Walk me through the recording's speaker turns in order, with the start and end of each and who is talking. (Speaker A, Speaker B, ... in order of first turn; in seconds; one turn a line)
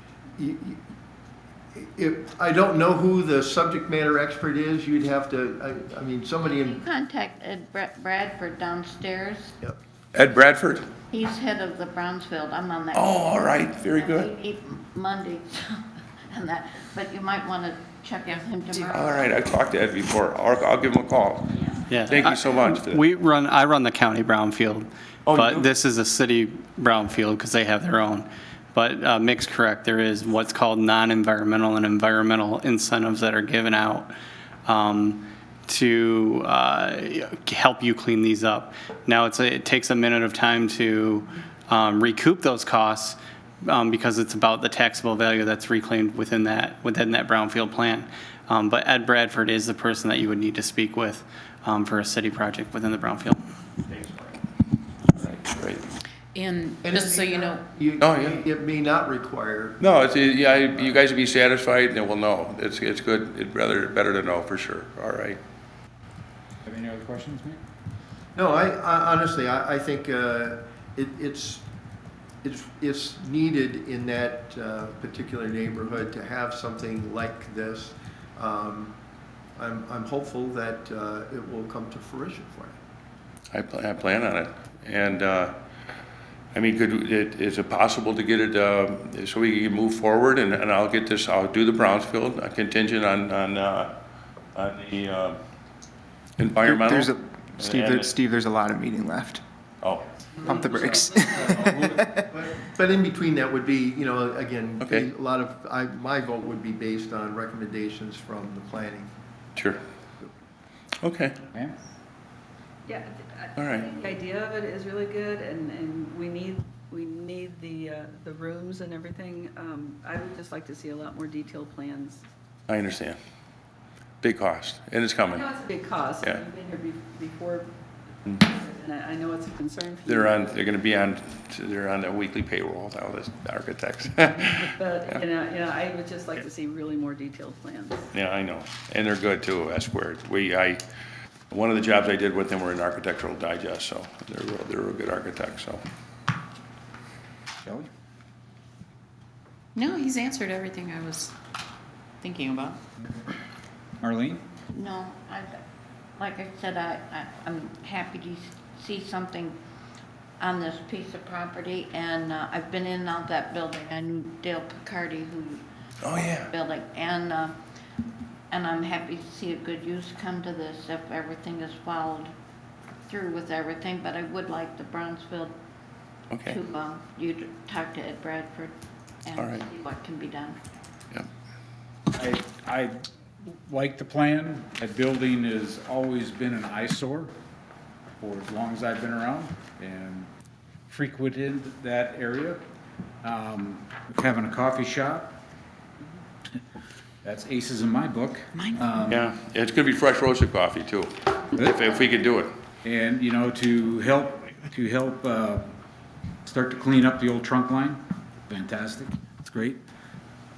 Speaker A: 0.4-0.8
Speaker A: 1.7-6.8
Speaker B: 6.4-9.6
Speaker C: 10.1-10.9
Speaker B: 11.1-19.3
Speaker C: 12.9-14.3
Speaker C: 18.8-23.1
Speaker D: 21.9-34.1
Speaker C: 25.3-25.7
Speaker D: 34.7-53.4
Speaker C: 53.9-54.3
Speaker C: 55.1-55.9
Speaker E: 56.3-57.6
Speaker A: 56.8-59.9
Speaker C: 58.0-58.5
Speaker C: 59.8-65.4
Speaker F: 66.7-67.6
Speaker A: 68.4-71.6
Speaker A: 72.4-78.9
Speaker A: 79.6-82.8
Speaker C: 83.5-85.5
Speaker C: 86.5-93.9
Speaker C: 94.5-95.4
Speaker C: 96.4-98.1
Speaker G: 96.6-99.4
Speaker C: 99.8-100.1
Speaker G: 100.4-102.2
Speaker A: 101.4-109.1
Speaker C: 104.8-105.1
Speaker C: 109.6-109.8
Speaker C: 111.0-111.5
Speaker H: 112.9-122.2
Speaker C: 113.6-113.9
Speaker C: 122.7-123.2
Speaker C: 124.2-125.5
Speaker H: 125.3-127.7
Speaker H: 128.3-130.5
Speaker C: 130.1-135.2
Speaker H: 134.2-138.1
Speaker C: 138.1-140.8
Speaker C: 141.5-145.8
Speaker F: 147.6-147.9
Speaker E: 149.8-151.4
Speaker E: 152.2-152.8
Speaker F: 154.0-154.4
Speaker B: 154.7-155.5
Speaker B: 156.2-159.6
Speaker B: 160.4-165.6
Speaker C: 166.0-166.5
Speaker B: 166.2-167.6
Speaker B: 168.5-172.3
Speaker B: 173.1-175.6
Speaker C: 176.3-176.6
Speaker B: 176.5-180.6
Speaker C: 179.4-179.7
Speaker F: 182.1-187.4
Speaker F: 188.2-190.3
Speaker F: 190.9-192.6
Speaker F: 193.2-195.4
Speaker F: 197.2-199.2
Speaker E: 198.7-199.0
Speaker C: 199.1-202.5
Speaker F: 202.8-205.7
Speaker F: 206.4-209.8